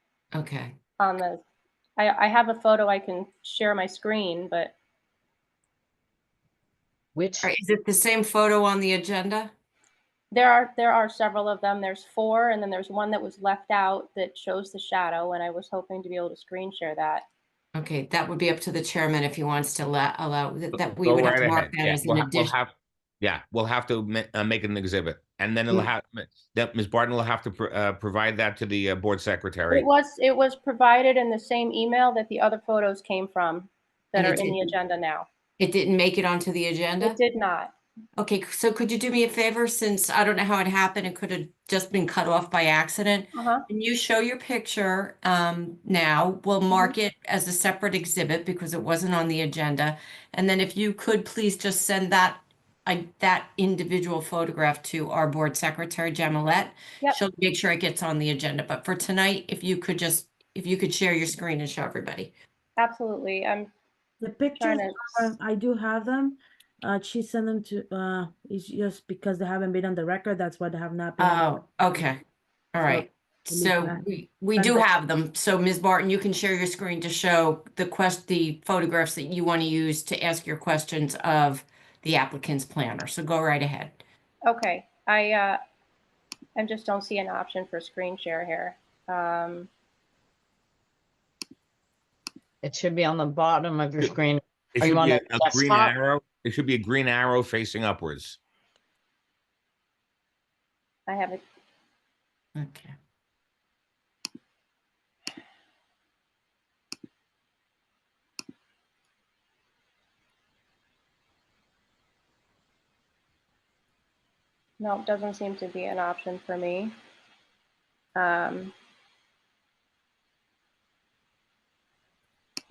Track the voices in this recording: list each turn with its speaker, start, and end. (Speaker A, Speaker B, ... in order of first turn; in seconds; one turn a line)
Speaker A: 0.3-0.7
Speaker B: 1.0-1.4
Speaker B: 2.0-4.7
Speaker C: 7.1-7.5
Speaker A: 7.4-9.5
Speaker B: 10.3-17.2
Speaker A: 17.7-22.5
Speaker D: 20.7-29.9
Speaker B: 29.7-35.3
Speaker A: 34.1-34.6
Speaker A: 35.6-37.2
Speaker B: 37.0-37.7
Speaker A: 38.2-62.3
Speaker B: 43.3-43.6
Speaker B: 62.8-63.7
Speaker E: 64.2-71.5
Speaker B: 64.6-65.3
Speaker A: 71.2-72.2
Speaker A: 72.7-84.0
Speaker E: 72.8-74.9
Speaker B: 84.5-85.6
Speaker B: 86.5-89.7
Speaker C: 92.6-95.9
Speaker D: 94.8-98.4
Speaker B: 101.1-101.4
Speaker A: 102.5-102.9
Speaker B: 114.8-116.9
Speaker B: 118.2-118.7